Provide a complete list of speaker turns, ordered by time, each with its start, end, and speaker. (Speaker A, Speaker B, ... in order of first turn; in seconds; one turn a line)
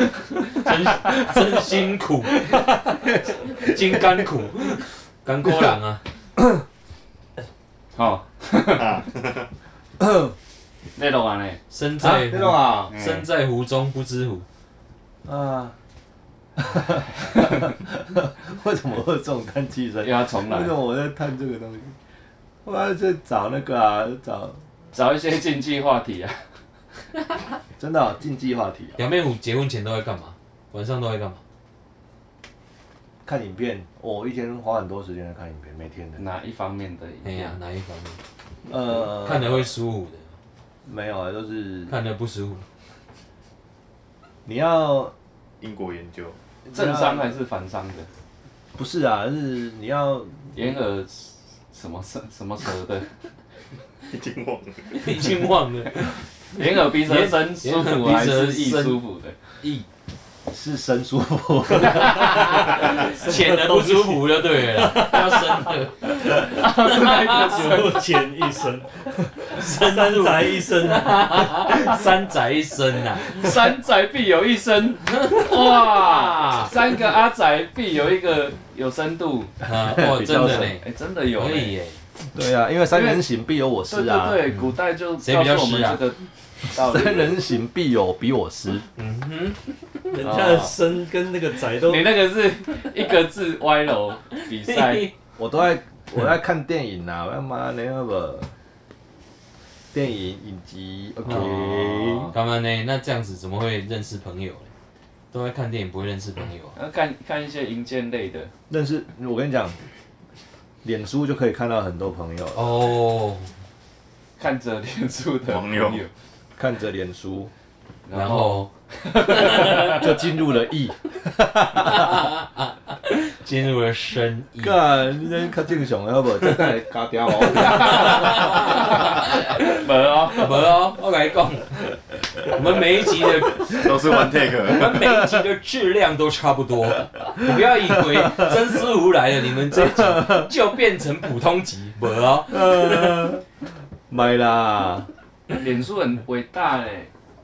Speaker A: 0.5-2.5
Speaker A: 3.5-6.0
Speaker B: 8.0-9.0
Speaker C: 8.7-9.5
Speaker D: 10.0-10.3
Speaker B: 11.0-11.6
Speaker A: 11.7-14.4
Speaker D: 12.0-12.9
Speaker D: 15.2-15.8
Speaker D: 16.6-22.0
Speaker B: 20.0-20.7
Speaker D: 22.6-24.6
Speaker B: 24.9-26.4
Speaker D: 27.8-29.0
Speaker A: 29.0-31.4
Speaker D: 33.2-36.2
Speaker B: 36.2-37.6
Speaker A: 37.2-38.2
Speaker D: 38.7-39.7
Speaker A: 38.9-40.2
Speaker D: 40.9-41.9
Speaker A: 41.9-42.6
Speaker D: 44.4-45.1
Speaker C: 45.6-46.4
Speaker D: 46.7-47.3
Speaker B: 46.7-48.1
Speaker D: 48.8-50.5
Speaker B: 50.5-53.1
Speaker C: 54.1-55.2
Speaker A: 54.9-59.0
Speaker B: 56.6-59.3
Speaker D: 60.5-62.8
Speaker A: 61.9-67.8
Speaker E: 63.0-65.4
Speaker B: 66.2-68.2
Speaker E: 67.6-71.6
Speaker A: 69.4-73.5
Speaker B: 71.7-72.0
Speaker B: 73.1-79.5
Speaker A: 75.2-76.7
Speaker A: 79.6-82.0
Speaker D: 79.6-80.7
Speaker B: 80.3-81.8
Speaker D: 82.3-84.4
Speaker B: 82.9-83.2
Speaker B: 83.9-87.3
Speaker A: 84.5-86.0
Speaker D: 86.8-88.8
Speaker A: 89.0-89.6
Speaker E: 90.1-92.1
Speaker B: 90.2-90.7
Speaker B: 91.8-95.1
Speaker A: 94.7-95.1
Speaker D: 95.4-98.5
Speaker D: 99.9-102.3
Speaker A: 101.2-101.6
Speaker B: 101.3-102.3
Speaker A: 102.3-104.7
Speaker A: 105.3-106.7
Speaker B: 106.8-108.5
Speaker D: 108.7-109.8
Speaker D: 110.8-112.6
Speaker A: 112.5-113.5
Speaker B: 114.4-116.1
Speaker C: 115.5-116.1
Speaker D: 116.5-117.5
Speaker B: 118.0-120.0
Speaker A: 118.1-120.1
Speaker D: 119.8-122.3
Speaker A: 121.7-124.8
Speaker D: 124.6-128.9
Speaker A: 127.5-129.8
Speaker B: 128.5-130.5
Speaker A: 130.3-134.1
Speaker C: 133.7-135.0
Speaker A: 134.7-143.3
Speaker D: 138.2-138.5
Speaker D: 139.8-140.4
Speaker D: 142.5-143.4
Speaker D: 144.1-145.1
Speaker B: 145.5-147.1